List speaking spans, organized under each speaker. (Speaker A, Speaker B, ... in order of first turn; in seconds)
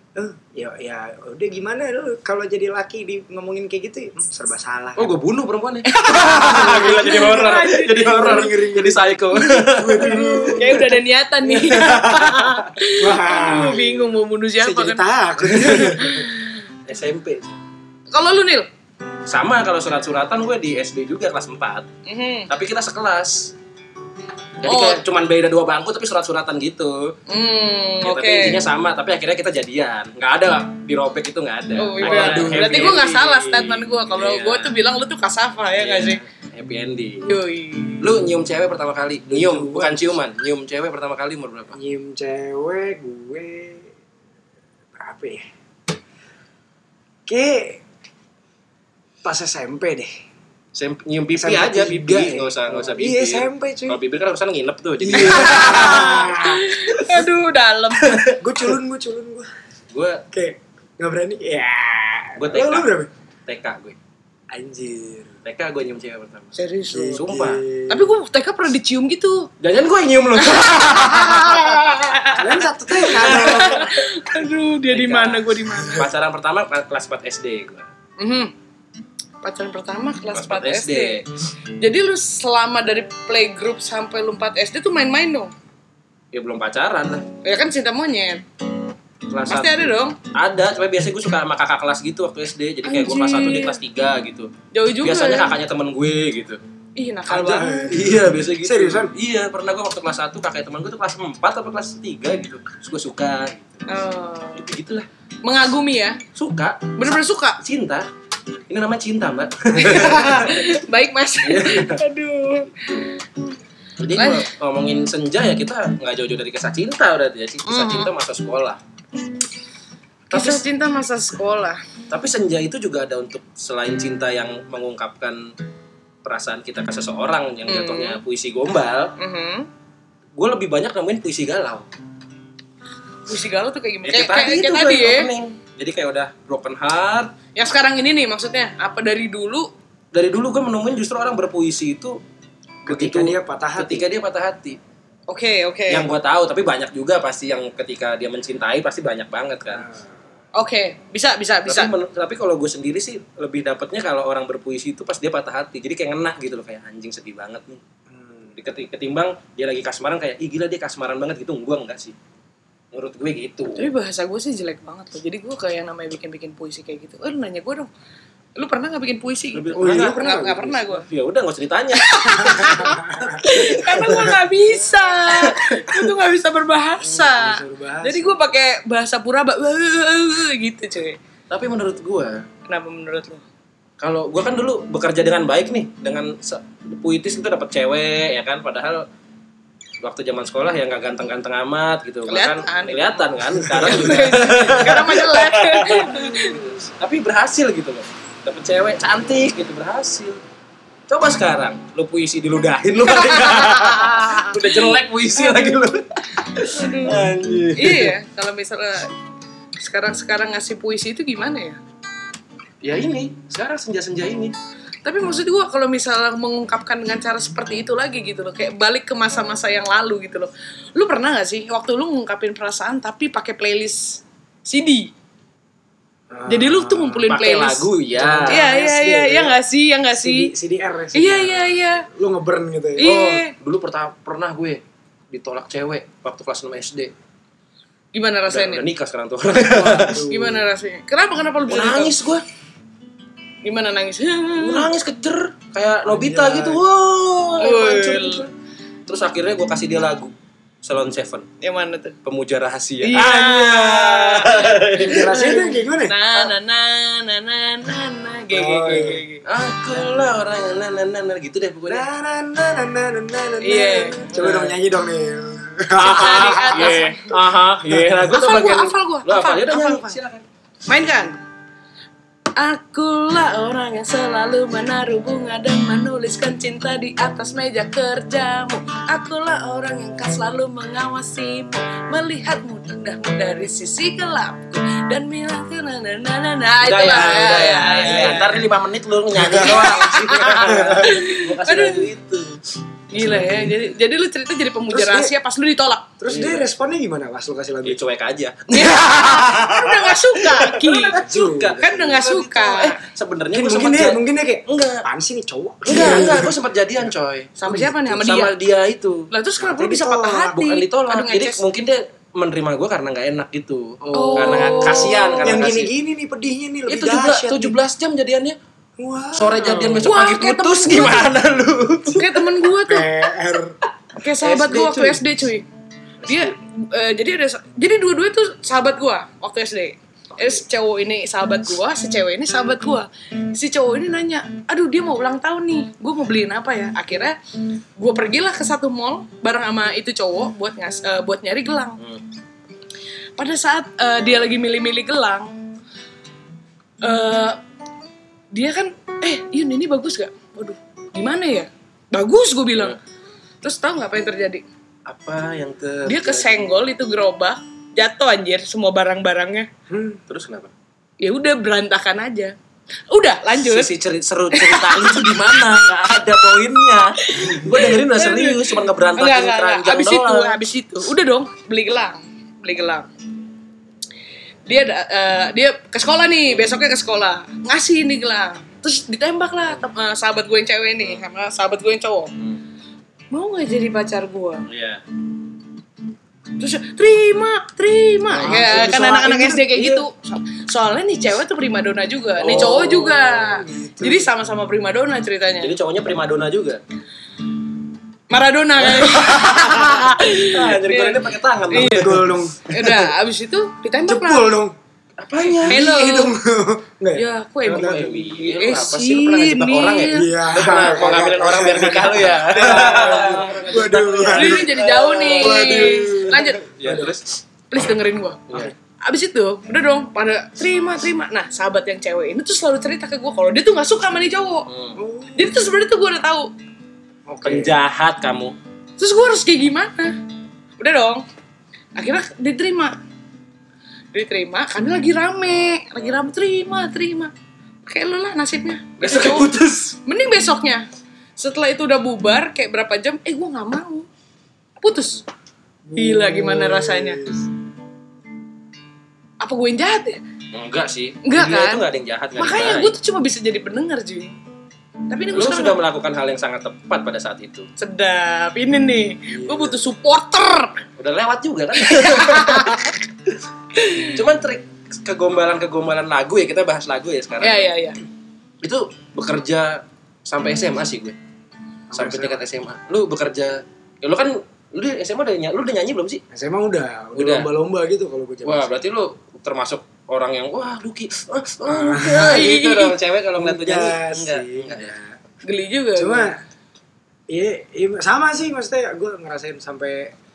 Speaker A: 0.1-5.1, 6.2-11.0, 13.0-13.9, 14.6-16.2, 32.0-33.0, 39.3-40.1, 41.7-43.9, 45.0-45.5, 47.3-47.8, 49.2-50.1, 51.4-54.0, 55.0-56.6, 58.4-59.5, 60.3-63.1, 64.5-65.3, 66.9-68.1, 72.3-73.9, 97.3-99.1, 142.9-144.1, 149.7-150.1, 158.1-158.6, 169.8-170.8, 172.8-173.2, 177.1-178.4, 226.3-227.3, 228.2-229.6, 230.2-233.1, 239.5-240.7, 246.0-246.8, 254.9-256.2, 258.5-259.2, 261.9-267.0, 267.9-268.3, 289.4-289.8, 290.7-291.1, 293.2-293.5, 294.9-295.3, 296.2-298.0, 301.2-301.8, 303.5-306.6, 309.6-310.6, 314.1-314.9, 315.4-317.8, 319.0-320.1, 322.9-323.8, 359.9-360.2, 388.3-390.1, 393.4-394.3, 401.7-403.1, 404.1-404.8, 405.6-408.1, 410.1-417.2, 425.0-425.6, 427.3-427.8, 445.9-447.5, 459.3-459.8, 471.9-472.4, 476.3-478.8, 481.6-482.6, 483.4-485.1, 486.0-486.4, 487.3-490.1
Speaker B: 5.0-10.9, 11.5-12.7, 15.4-16.1, 16.9-17.6, 19.3-21.9, 22.5-23.5, 24.6-27.1, 28.0-34.8, 35.7-37.3, 38.0-41.8, 50.8-56.4, 58.0-58.4, 59.9-60.2, 62.4-62.9, 63.5-64.0, 65.5-66.5, 67.1-67.6, 69.6-72.2, 73.1-73.9, 74.9-77.9, 80.3-81.3, 86.3-87.3, 89.3-94.5, 95.0-96.6, 97.9-103.8, 104.6-105.1, 106.3-108.1, 108.7-110.6, 111.4-112.0, 114.0-118.8, 120.3-120.6, 122.1-125.4, 126.2-129.2, 130.4-131.9, 134.0-137.3, 140.1-142.2, 142.9-144.8, 145.9-149.9, 151.7-157.8, 158.6-162.2, 162.9-163.9, 169.5-170.2, 170.9-174.3, 175.3-176.1, 181.5-182.4, 184.0-189.1, 190.0-200.4, 201.1-208.2, 212.8-214.6, 227.3-228.6, 233.0-237.1, 238.5-240.3, 241.7-242.4, 244.6-248.5, 249.1-251.5, 252.2-255.7, 259.5-262.1, 264.3-264.8, 265.9-270.4, 286.8-292.6, 293.2-293.7, 296.3-296.6, 297.9-305.0, 305.8-309.3, 310.5-315.9, 316.9-318.6, 319.3-322.5, 324.4-325.2, 355.1-356.8, 360.3-360.7, 363.6-370.6, 384.7-385.0, 392.4-393.3, 395.6-396.8, 398.8-402.4, 405.2-405.8, 407.7-417.4, 424.7-425.0, 427.4-428.6, 439.0-440.0, 450.5-452.9, 455.3-457.7, 461.0-463.4, 464.0-467.7, 468.6-471.2, 471.9-476.2, 477.2-477.5, 478.4-485.0
Speaker C: 5.9-8.6, 10.0-15.0, 15.8-16.6, 18.1-18.7, 22.1-22.5, 24.6-25.0, 27.3-28.6, 31.8-36.2, 37.2-38.1, 55.1-58.2, 66.5-67.2, 67.9-69.5, 70.4-76.1, 78.2-78.5, 79.4-81.2, 81.8-85.5, 87.4-88.4, 89.5-90.2, 92.8-93.8, 94.7-95.5, 97.0-97.9, 103.9-104.7, 105.4-106.2, 107.0-107.6, 109.7-113.2, 114.1-114.5, 117.7-118.1, 120.3-121.8, 127.7-128.2, 129.2-129.7, 133.3-135.3, 137.6-139.7, 145.3-146.1, 150.6-151.9, 163.8-167.9, 168.6-171.1, 171.9-181.2, 182.7-183.4, 192.3-196.6, 203.0-205.8, 206.6-209.1, 209.8-211.8, 215.1-225.1, 226.5-227.9, 228.5-230.5, 231.1-232.1, 233.0-233.5, 238.1-238.8, 240.3-242.1, 243.6-244.9, 247.6-248.5, 251.6-252.2, 253.0-259.4, 263.6-264.4, 266.0-267.3, 268.3-270.2, 270.9-271.4, 272.6-288.6, 289.5-292.1, 293.1-296.1, 298.7-301.2, 301.8-303.0, 307.6-308.6, 309.3-311.6, 314.1-315.6, 320.0-321.3, 322.1-323.2, 324.1-325.7, 326.3-337.4, 338.0-342.0, 343.4-345.6, 347.0-347.6, 348.5-353.0, 353.6-354.6, 356.1-359.7, 361.2-362.5, 363.1-363.9, 364.5-365.9, 367.2-373.1, 374.7-382.3, 383.3-384.7, 386.6-395.7, 398.3-404.6, 405.7-406.3, 407.1-410.9, 414.3-416.6, 417.7-418.5, 419.0-424.7, 425.4-426.5, 429.0-430.2, 430.8-431.2, 432.0-433.0, 434.1-437.3, 437.9-439.5, 440.1-440.9, 441.4-444.1, 444.8-445.2, 445.9-447.2, 449.4-450.2, 451.2-451.9, 452.4-454.4, 455.1-455.8, 457.8-460.8, 461.8-462.9, 463.8-464.2, 467.4-468.0, 482.2-482.9, 485.4-486.3